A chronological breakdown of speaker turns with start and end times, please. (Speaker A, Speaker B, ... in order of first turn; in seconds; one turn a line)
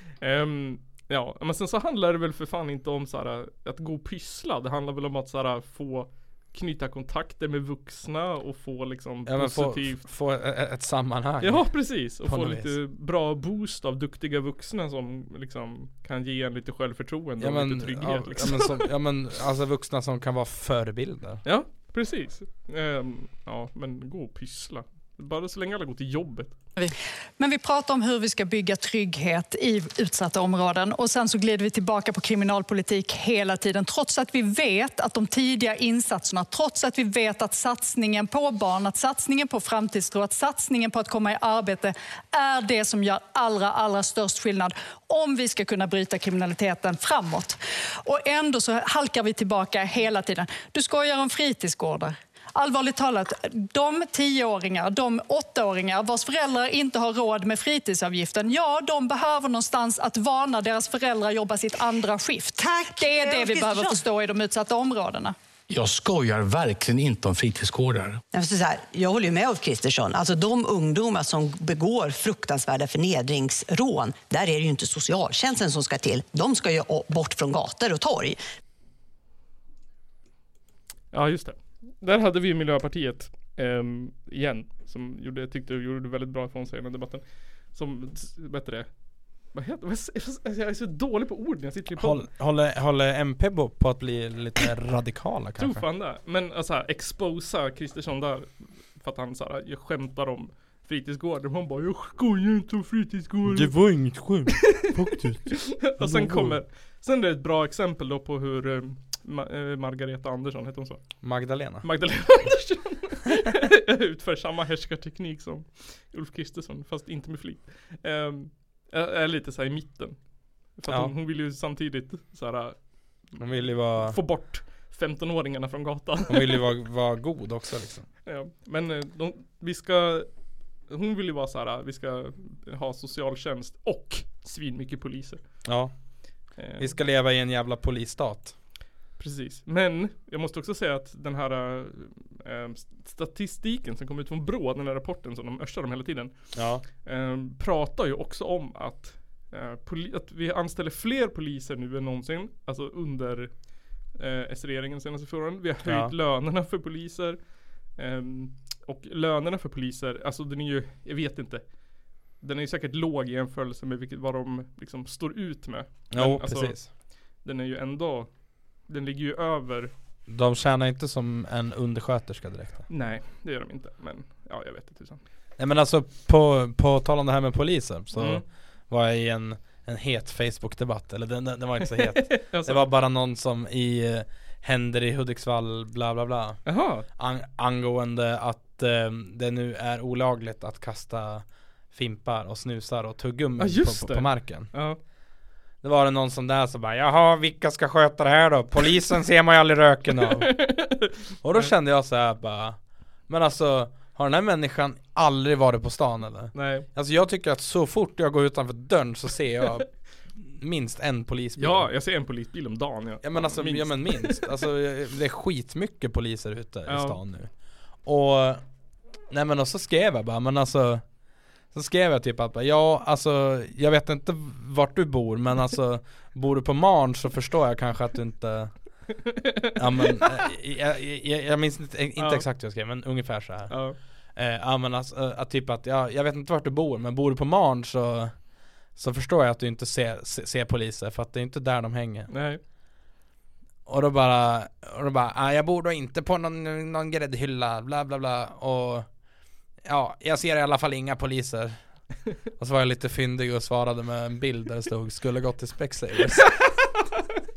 Speaker A: 0.2-10.1
Speaker B: 9.2-12.7
Speaker A: 11.4-18.9
Speaker B: 17.4-21.4
Speaker A: 21.4-26.5
Speaker C: 26.8-65.3
Speaker D: 62.6-64.0
Speaker E: 65.7-68.2
Speaker D: 68.3-78.4
Speaker A: 81.1-87.2
Speaker A: 87.7-88.9
Speaker A: 89.5-92.2
Speaker B: 92.0-95.8
Speaker A: 95.6-103.7
Speaker B: 103.5-106.6
Speaker A: 105.5-111.0
Speaker B: 111.2-111.8
Speaker A: 111.8-120.2
Speaker A: 120.8-122.8
Speaker B: 120.9-121.1
Speaker B: 123.4-124.2
Speaker A: 124.0-126.6
Speaker B: 126.3-128.1
Speaker A: 128.2-130.3
Speaker A: 130.9-135.4
Speaker B: 135.6-135.9
Speaker A: 136.6-136.9
Speaker B: 136.8-138.5
Speaker A: 139.2-146.3
Speaker B: 146.5-146.8
Speaker A: 147.0-153.5
Speaker A: 154.1-157.4
Speaker B: 155.8-156.1
Speaker A: 157.9-161.6
Speaker A: 162.4-166.8
Speaker B: 166.1-166.9
Speaker A: 167.4-168.3
Speaker A: 168.8-169.9
Speaker B: 170.3-172.8
Speaker A: 172.9-175.2
Speaker B: 175.6-194.7
Speaker A: 178.1-178.4
Speaker A: 181.8-182.8
Speaker A: 186.7-187.1
Speaker A: 193.6-195.0
Speaker B: 195.8-200.5
Speaker A: 200.2-201.7
Speaker B: 201.4-209.9
Speaker A: 206.5-206.9
Speaker B: 210.4-211.9
Speaker A: 211.6-214.5
Speaker B: 213.2-217.5
Speaker A: 216.9-217.2
Speaker B: 218.0-218.6
Speaker B: 219.3-221.0
Speaker B: 221.7-228.7
Speaker A: 229.2-230.4
Speaker B: 229.8-233.8
Speaker A: 232.2-232.4
Speaker A: 233.7-233.9
Speaker B: 234.3-238.3
Speaker B: 238.9-242.3
Speaker A: 242.3-242.6
Speaker B: 243.8-249.1
Speaker B: 249.8-251.8
Speaker B: 252.6-256.5